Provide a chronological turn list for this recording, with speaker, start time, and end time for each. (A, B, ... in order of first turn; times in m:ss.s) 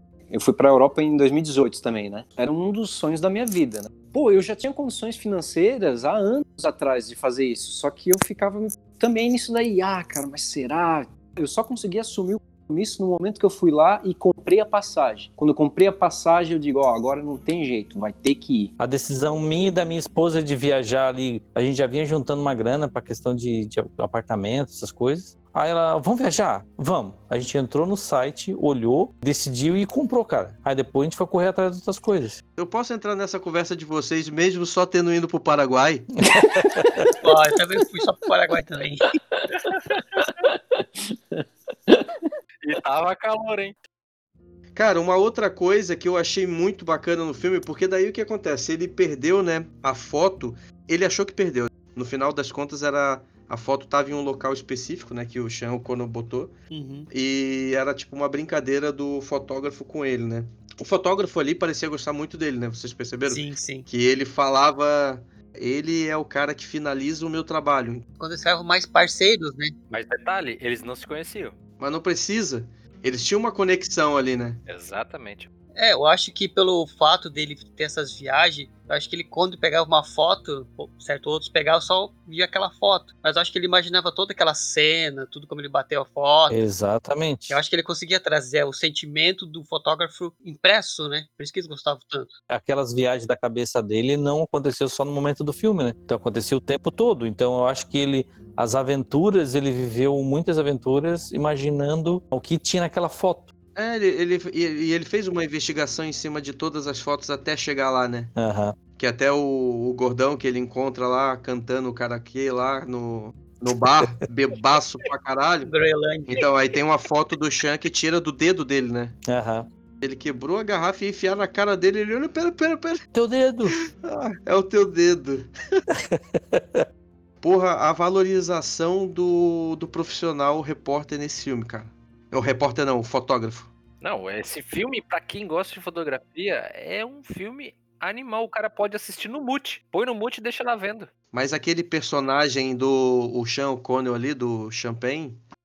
0:00.3-0:18.7 A
0:18.8-0:32.4 B
0:32.6-0:36.1 C
0:36.2-0:37.1 B
0:37.2-0:39.2 D
0:42.6-0:43.8 E
0:44.7-0:56.5 C
0:56.7-0:57.1 D
0:57.1-1:08.0 C
1:03.3-1:03.9 D
1:08.2-1:09.7 D
1:09.9-1:11.6 E
1:11.8-1:14.6 C
1:14.7-1:15.5 E
1:15.8-1:26.6 D
1:26.5-1:27.6 B
1:27.5-1:32.3 D
1:32.5-1:43.5 B
1:43.8-1:48.3 C
1:48.4-1:48.8 B
1:49.0-1:55.7 C
1:55.6-1:56.5 D
1:56.3-1:59.2 C
1:59.3-1:59.7 B
2:00.0-2:03.0 C
2:03.1-2:03.8 B
2:03.9-2:05.8 C
2:06.1-2:06.8 B
2:07.4-2:13.7 C
2:14.0-2:21.1 E
2:21.3-2:25.4 C